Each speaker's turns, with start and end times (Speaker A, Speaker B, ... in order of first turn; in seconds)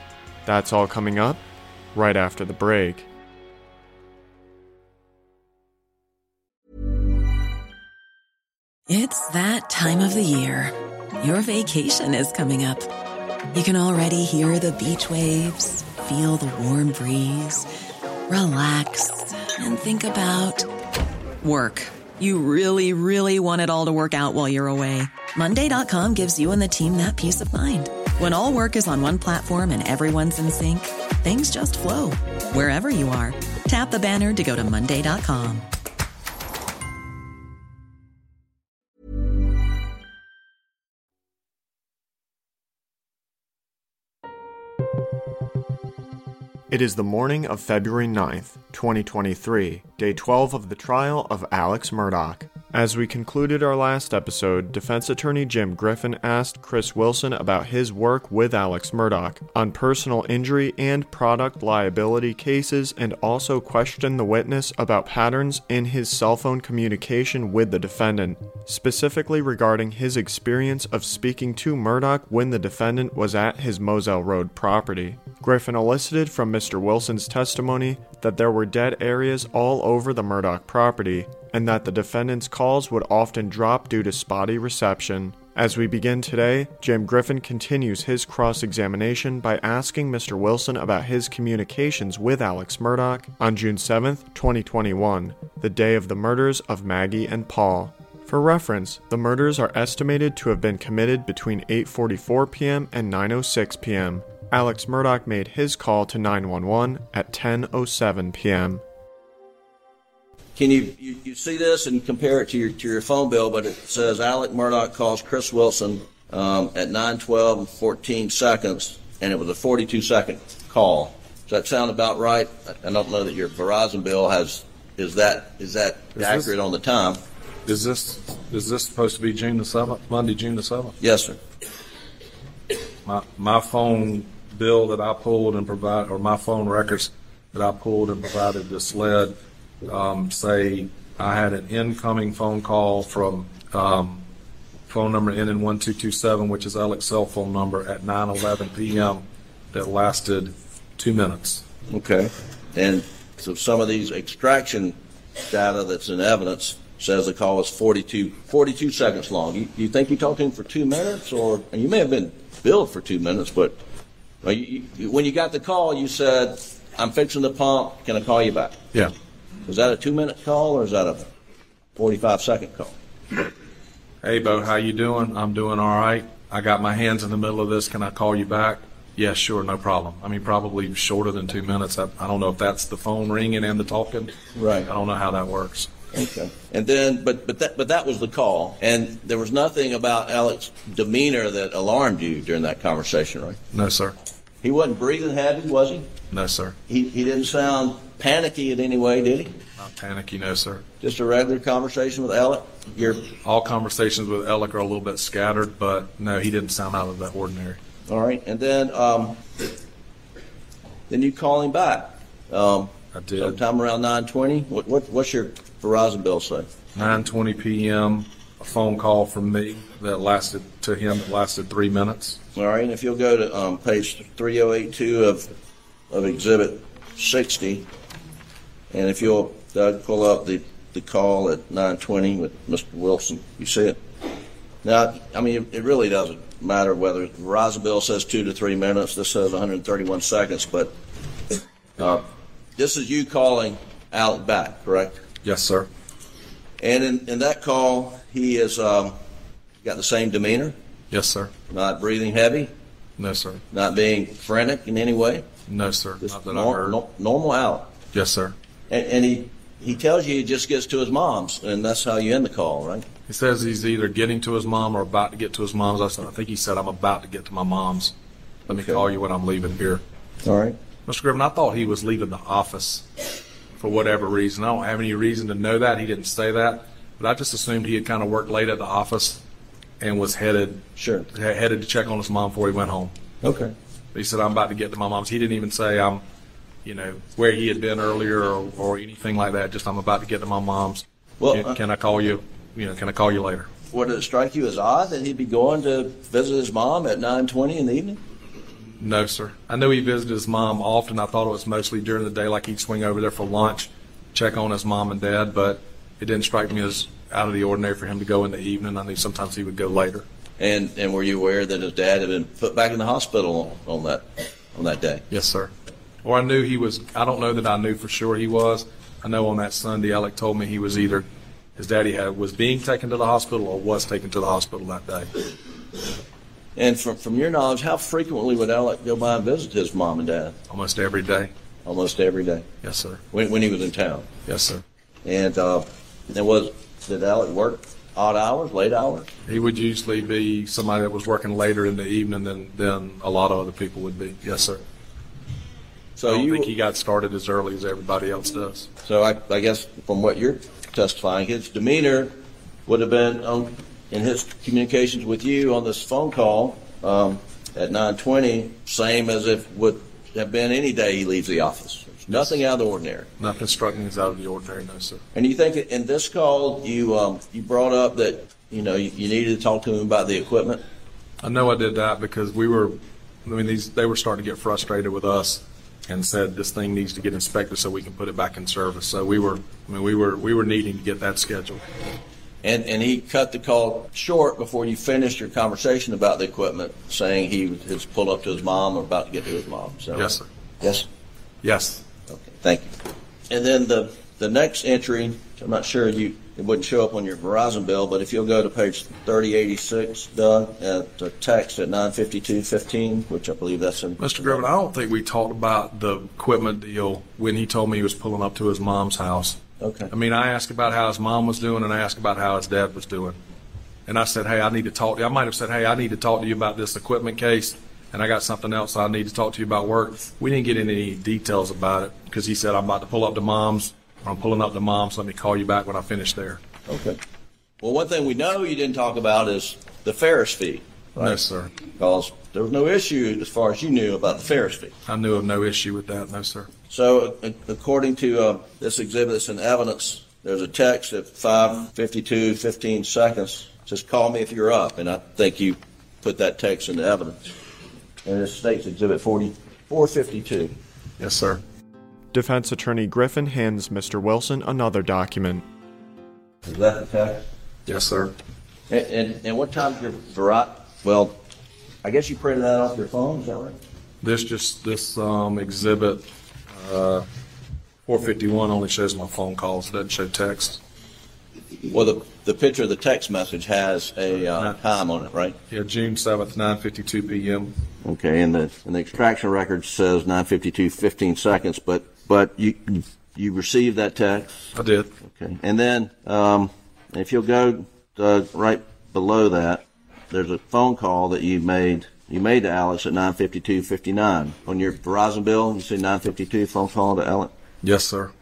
Speaker A: 0.4-1.4, 1.9-3.1, 46.7-108.8, 452.3-455.6
Speaker B: 8.9-12.9, 13.5-17.7, 18.3-20.7, 21.4-35.7
Speaker C: 110.5-127.2, 131.0-131.4, 151.9-155.0, 155.5-163.8, 164.4-168.8, 169.6-171.3, 171.9-172.9, 184.6-184.9, 186.1-193.6, 194.6-196.1, 196.9-199.6, 201.0-203.3, 208.1-209.4, 211.1-216.7, 222.6-225.5, 226.1-227.9, 228.9-234.0, 234.8-240.9, 242.0-242.2, 242.8-245.2, 246.8-249.2, 249.8-250.7, 251.7-252.7, 253.7-255.4, 256.2-257.9, 258.9-263.1, 268.7-269.0, 270.4-270.8, 281.0-281.3, 283.4-283.7, 291.4-291.8, 293.9-298.2, 310.6-315.2, 326.8-330.6, 331.8-332.7, 333.3-334.3, 335.2-339.3, 346.2-346.7, 349.0-352.3, 352.9-363.3, 365.3-370.8, 382.6-391.1, 392.3-392.9, 393.5-404.6, 409.8-410.1, 426.9-427.2, 427.8-431.4, 431.9-434.9, 436.9-447.5, 448.2-450.8, 456.6-457.4, 458.9-461.4, 462.0-463.8, 471.9-475.6, 478.0-484.7, 485.2-497.5
Speaker D: 126.2-126.5, 127.7-130.9, 133.1-144.2, 144.9-151.6, 174.2-184.3, 184.8-185.9, 193.7-194.1, 196.3-196.8, 199.8-200.8, 203.4-207.8, 213.1-213.6, 216.9-222.4, 245.4-245.9, 251.1-251.5, 253.2-253.6, 255.7-257.0, 258.1-258.6, 263.3-268.1, 268.7-270.0, 271.1-273.1, 273.8-279.4, 280.0-283.1, 284.1-286.2, 286.8-293.7, 299.0-310.2, 315.3-315.7, 316.2-325.5, 330.7-331.5, 332.8-333.2, 334.4-334.8, 339.5-344.8, 346.2-348.9, 362.3-362.6, 363.4-365.2, 371.4-381.8, 390.1-390.4, 391.6-392.0, 404.2-409.6, 410.1-413.4, 414.1-426.6, 431.2-431.7, 435.1-436.7, 451.2-451.6, 457.9-458.3, 464.2-467.3, 468.1-470.8, 474.5-474.8, 475.7-477.7, 484.7-485.1, 497.8-498.3